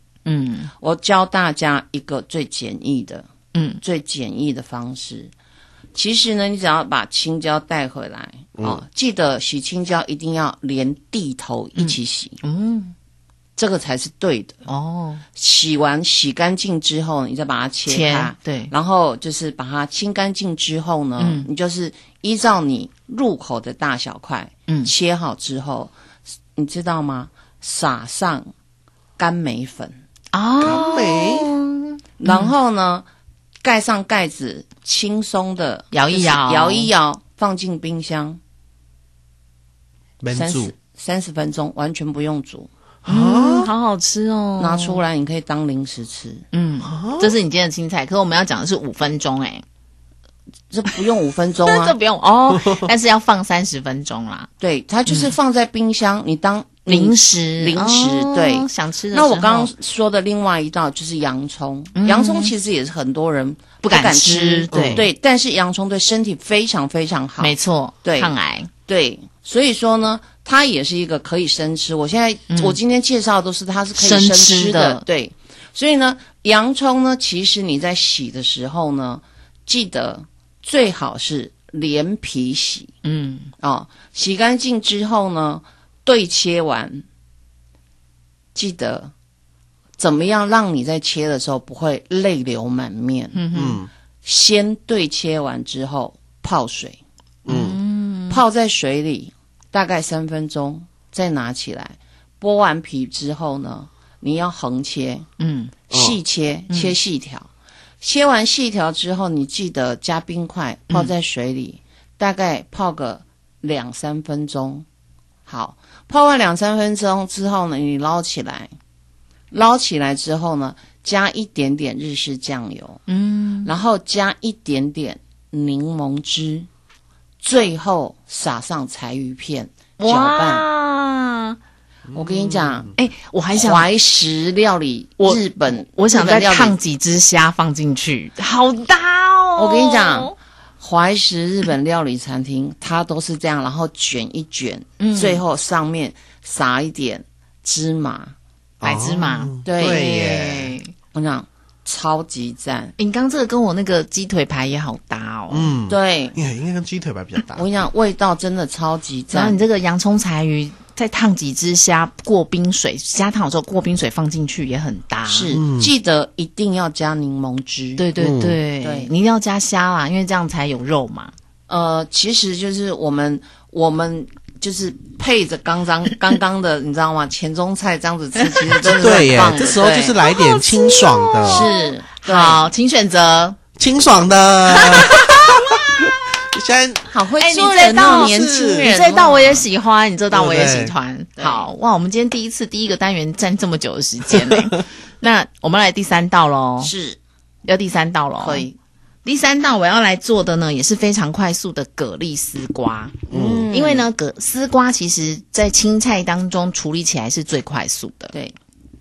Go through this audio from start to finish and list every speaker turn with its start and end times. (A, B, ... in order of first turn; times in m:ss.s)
0:00.2-0:00.7 A
0:00.8-0:03.3 B
0:03.5-0:03.8 A
0:03.8-0:05.3 B
0:05.9-0:12.4 B
0:11.8-0:12.9 A
0:13.6-0:14.6 B
0:14.7-0:15.2 A
0:15.3-0:25.9 B
0:17.9-0:18.7 A
0:21.2-0:21.5 A
0:26.5-0:28.5 B
0:29.2-0:30.0 B
0:30.3-0:32.5 A
0:30.6-0:31.5 C
0:32.2-0:33.0 B
0:33.6-0:38.4 B
0:35.9-0:36.9 A
0:40.2-0:40.7 C
0:40.3-0:42.7 B
0:43.0-0:43.7 C
0:43.0-0:45.0 A
0:44.6-0:46.4 B
0:46.5-0:49.6 A
0:46.8-0:47.3 C
0:50.7-0:51.9 B
0:51.6-0:54.5 A
0:54.6-1:08.3 B
0:55.1-0:55.3 A
0:56.9-0:59.7 A
1:01.9-1:02.5 A
1:03.8-1:05.0 A
1:04.7-1:05.0 C
1:07.4-1:08.7 A
1:08.9-1:22.9 B
1:12.5-1:12.8 A
1:14.0-1:15.0 A
1:23.0-1:23.5 A
1:23.6-1:27.0 B
1:28.5-1:29.1 B
1:30.0-1:33.4 B
1:33.3-1:33.8 A
1:33.5-1:33.9 C
1:34.2-1:37.0 B
1:37.4-1:37.8 C
1:37.4-1:38.4 A
1:38.3-1:45.3 B
1:45.4-1:45.7 A
1:45.9-1:47.5 B
1:45.9-1:46.2 C
1:46.7-1:47.0 A
1:48.0-1:54.8 B
1:55.4-1:58.7 B
1:59.5-2:03.0 B
2:03.1-2:03.7 A
2:03.6-2:06.7 B
2:07.4-2:10.6 B
2:10.0-2:11.6 A
2:12.1-2:12.9 B
2:13.0-2:13.9 A
2:13.5-2:16.8 B
2:15.2-2:20.3 A
2:19.6-2:28.3 B
2:25.0-2:25.4 A
2:28.8-2:30.7 C
2:28.8-2:30.9 A
2:29.6-2:30.1 B
2:31.1-2:32.9 B
2:33.0-2:35.7 A
2:35.5-2:37.6 C
2:35.9-2:36.4 B
2:37.5-2:39.6 B
2:39.3-2:45.6 A
2:45.3-2:48.0 B
2:45.5-2:45.9 C
2:48.0-2:51.3 A
2:48.2-2:48.6 C
2:48.8-2:49.1 B
2:51.7-3:00.2 B
2:58.8-3:01.7 C
3:00.2-3:03.6 A
3:01.4-3:02.7 B
3:03.8-3:05.8 C
3:04.7-3:05.5 A
3:06.5-3:07.1 C
3:07.1-3:09.6 B
3:07.4-3:16.9 A
3:08.0-3:08.9 C
3:10.3-3:10.9 C
3:11.4-3:11.7 B
3:16.8-3:17.2 B
3:17.6-3:18.7 A
3:18.4-3:18.8 B
3:19.2-3:28.3 A
3:23.3-3:24.1 B
3:23.3-3:23.6 C